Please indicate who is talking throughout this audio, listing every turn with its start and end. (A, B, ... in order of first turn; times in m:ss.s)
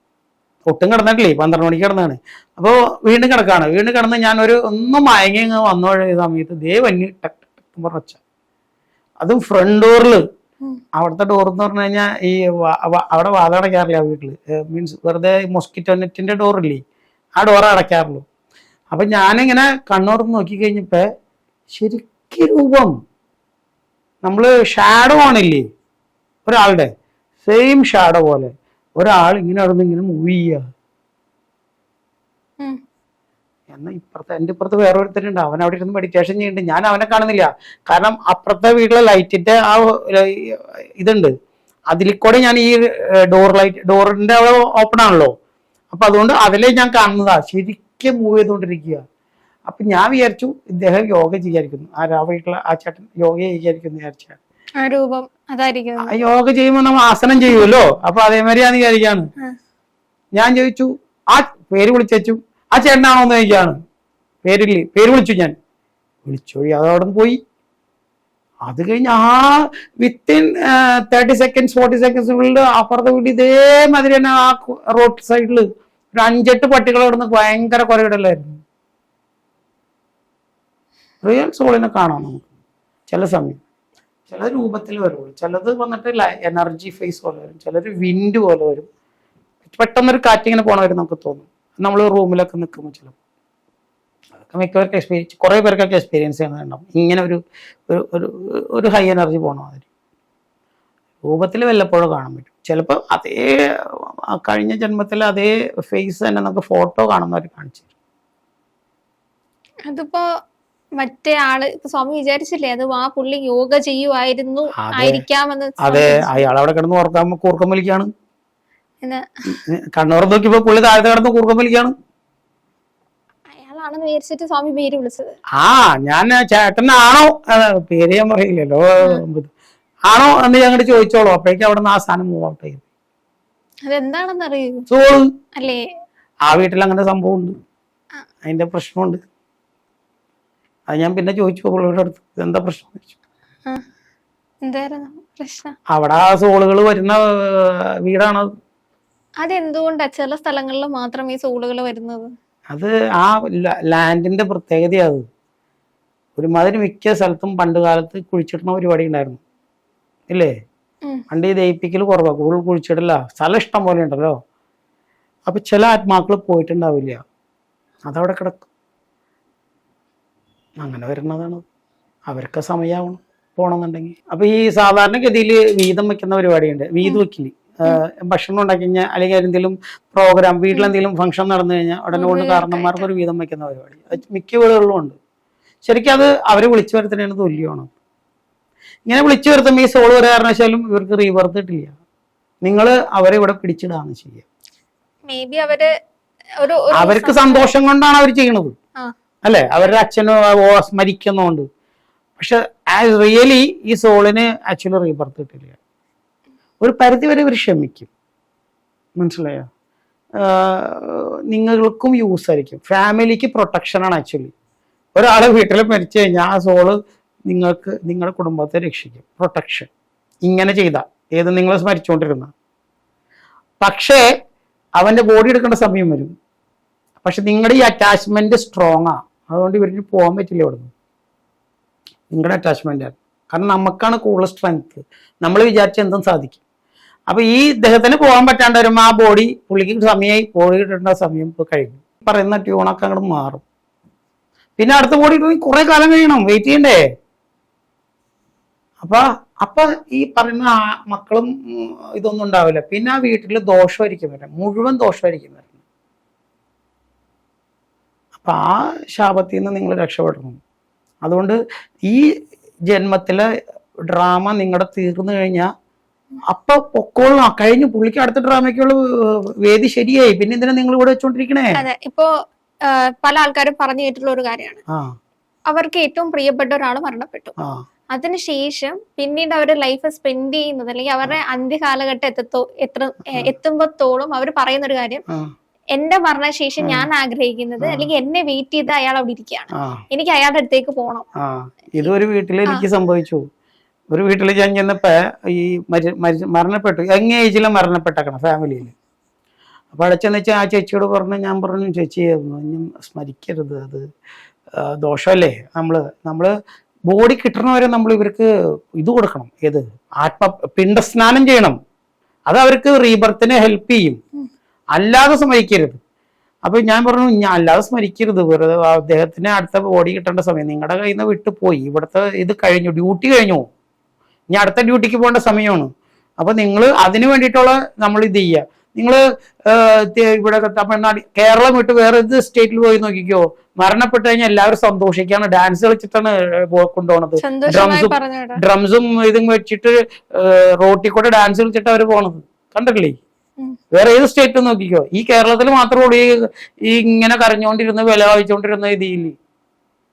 0:00.6-0:08.2 A
0:09.2-0:10.2 A
0:11.0-0:16.8 A
0:17.4-0:18.2 A
0:18.9-0:21.0 A
0:21.8-0:22.9 A
0:24.2-0:25.6 A
0:26.4-0:26.9 A
0:27.4-0:30.6 A
0:33.7-0:41.3 A
0:41.9-0:45.3 A
0:45.9-0:49.0 A
0:49.7-0:54.4 A
0:54.8-0:56.1 B
0:56.0-0:59.3 A
1:00.4-1:03.8 A
1:04.4-1:05.6 A
1:06.3-1:07.4 A
1:08.7-1:18.6 A
1:21.2-1:22.4 A
1:23.1-1:23.6 A
1:24.3-1:28.9 A
1:29.7-1:33.1 A
1:34.4-1:39.8 A
1:41.2-1:43.6 A
1:44.4-1:47.8 A
1:49.9-1:50.2 B
1:51.0-1:56.4 B
1:54.8-1:55.2 A
1:55.8-1:58.1 A
1:59.5-2:01.9 A
2:03.5-2:05.4 B
2:05.6-2:09.5 A
2:10.1-2:12.8 A
2:13.9-2:14.8 B
2:14.9-2:15.3 A
2:15.6-2:15.9 B
2:16.5-2:17.5 A
2:18.4-2:19.2 A
2:20.9-2:23.1 A
2:24.6-2:25.8 B
2:25.9-2:28.5 A
2:29.4-2:32.3 B
2:32.7-2:35.2 A
2:36.4-2:39.4 A
2:41.3-2:44.4 A
2:45.5-2:47.2 A
2:48.1-2:48.7 A
2:50.8-2:51.6 A
2:52.3-3:05.2 A
3:02.2-3:03.1 B
3:05.8-3:07.9 A
3:09.1-3:11.9 A
3:12.6-3:14.4 A
3:15.3-3:15.9 B
3:16.6-3:17.7 B
3:17.0-3:18.7 A
3:19.4-3:21.7 A
3:22.4-3:25.8 A
3:26.8-3:28.1 A
3:29.2-3:29.7 A
3:30.4-3:34.5 A
3:35.2-3:39.9 A
3:40.4-3:42.5 A
3:43.8-3:44.2 A
3:45.0-3:46.3 A
3:47.2-3:50.9 A
3:52.3-3:56.6 A
3:57.3-4:03.6 A
4:04.8-4:07.0 A
4:09.0-4:15.7 A
4:18.4-4:20.6 A
4:21.2-4:22.2 A
4:22.9-4:23.4 A
4:24.1-4:25.7 A
4:26.5-4:29.0 A
4:29.6-4:31.8 A
4:31.8-4:32.3 B
4:32.9-4:34.8 B
4:35.7-4:37.5 B
4:38.1-4:45.2 B
4:45.9-4:51.3 B
4:47.8-4:48.1 A
4:49.8-4:50.0 A
4:51.4-4:53.4 A
4:54.1-4:58.9 A
4:59.9-5:04.1 A
5:04.8-5:06.5 A
5:07.1-5:08.5 A
5:09.0-5:11.8 A
5:12.5-5:14.2 A
5:15.0-5:16.0 A
5:16.7-5:23.7 A
5:24.5-5:43.2 A
5:37.4-5:38.6 B
5:43.9-5:49.4 A